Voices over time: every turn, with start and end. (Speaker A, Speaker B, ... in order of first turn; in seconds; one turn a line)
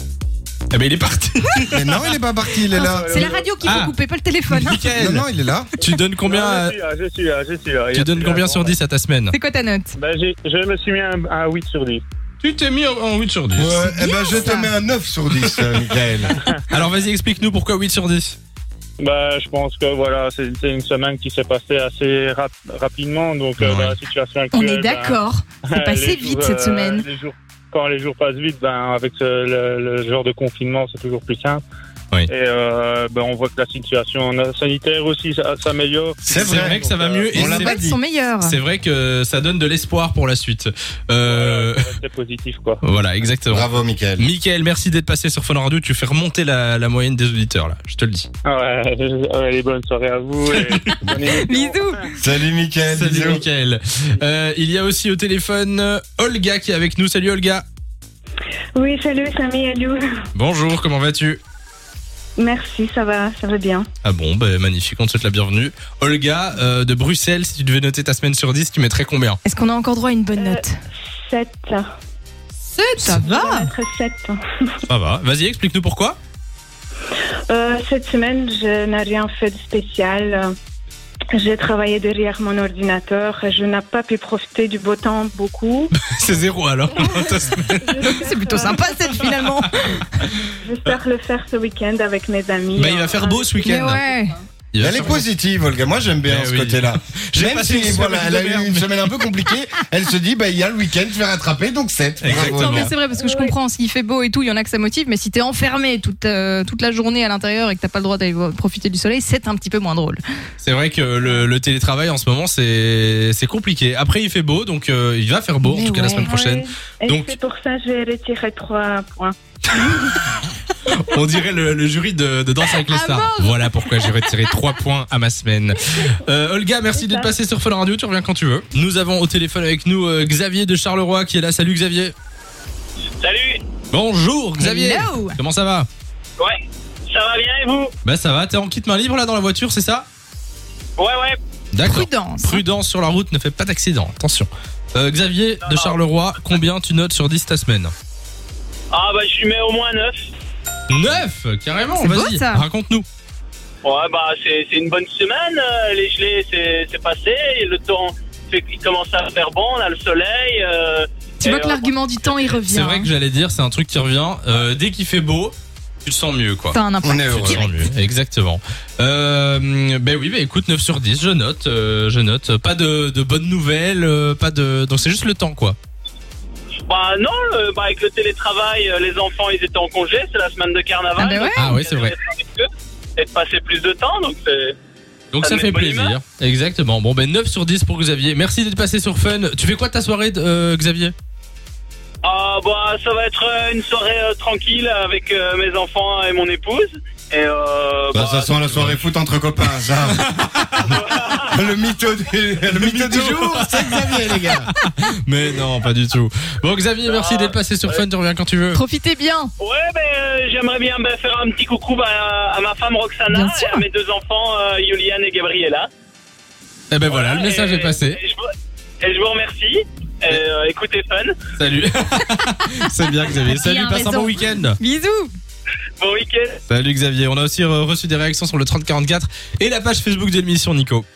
Speaker A: 0.7-2.0
Speaker B: 1.7-3.4
Speaker C: 2.7-4.9
Speaker D: 2.8-3.8
Speaker A: 3.6-4.0
Speaker A: 4.5-5.2
Speaker B: 4.9-5.7
Speaker A: 5.8-6.8
Speaker D: 6.2-8.8
Speaker A: 7.9-9.4
Speaker C: 9.3-9.9
Speaker D: 10.0-12.0
Speaker A: 12.4-13.8
Speaker B: 13.6-16.3
Speaker C: 13.8-14.7
Speaker A: 15.4-15.7
Speaker A: 16.5-18.4
Speaker D: 19.0-31.6
Speaker A: 23.6-23.9
Speaker C: 24.5-27.1
Speaker D: 32.3-37.4
Speaker B: 36.3-38.0
Speaker A: 36.3-37.8
Speaker C: 37.4-38.6
Speaker A: 38.4-41.9
Speaker D: 41.2-42.8
Speaker A: 42.8-48.3
Speaker B: 43.5-44.3
Speaker D: 48.5-52.1
Speaker A: 50.6-51.2
Speaker C: 51.3-52.1
Speaker B: 52.2-53.5
Speaker A: 52.9-57.6
Speaker E: 58.8-60.1
Speaker A: 60.4-61.4
Speaker E: 62.4-63.9
Speaker A: 64.0-69.4
Speaker C: 69.5-70.8
Speaker E: 70.3-70.7
Speaker E: 71.2-71.9
Speaker C: 72.7-73.7
Speaker E: 73.0-74.4
Speaker A: 74.9-76.2
Speaker E: 77.5-80.5
Speaker E: 81.4-85.9
Speaker A: 86.0-88.2
Speaker E: 87.0-89.3
Speaker C: 88.0-90.0
Speaker E: 90.6-94.3
Speaker A: 92.8-94.0
Speaker C: 93.7-94.4
Speaker A: 94.7-95.2
Speaker B: 94.8-102.9
Speaker A: 96.3-99.1
Speaker A: 102.2-102.9
Speaker C: 102.5-110.2
Speaker E: 103.1-103.6
Speaker A: 110.6-117.3
Speaker C: 115.7-116.4
Speaker E: 116.2-119.4
Speaker A: 119.7-120.2
Speaker A: 120.9-132.1
Speaker C: 122.8-124.7
Speaker E: 126.9-127.3
Speaker F: 133.2-133.6
Speaker A: 133.9-135.9
Speaker C: 134.6-135.4
Speaker F: 136.4-137.9
Speaker A: 138.0-140.1
Speaker F: 141.0-141.4
Speaker A: 141.7-147.9
Speaker C: 141.8-142.7
Speaker F: 145.7-146.0
Speaker F: 148.9-150.2
Speaker A: 150.9-153.1
Speaker C: 152.0-152.7
Speaker F: 153.8-162.5
Speaker C: 161.4-163.1
Speaker A: 162.7-175.8
Speaker C: 166.7-167.6
Speaker B: 167.0-167.7
Speaker F: 176.9-184.8
Speaker C: 181.2-181.7
Speaker A: 181.6-182.2
Speaker A: 185.3-191.1
Speaker F: 185.4-186.2
Speaker F: 192.2-198.5
Speaker B: 198.1-200.3
Speaker A: 198.7-199.0
Speaker A: 200.1-200.9
Speaker F: 200.8-201.6
Speaker B: 201.5-204.7
Speaker A: 202.7-208.8
Speaker F: 207.1-208.0
Speaker C: 208.7-209.5
Speaker F: 209.6-215.9
Speaker C: 213.3-213.8
Speaker A: 216.9-218.2
Speaker F: 217.1-218.5
Speaker F: 219.0-221.3
Speaker A: 221.6-224.8
Speaker C: 223.4-225.3
Speaker F: 226.0-226.6
Speaker A: 226.7-231.1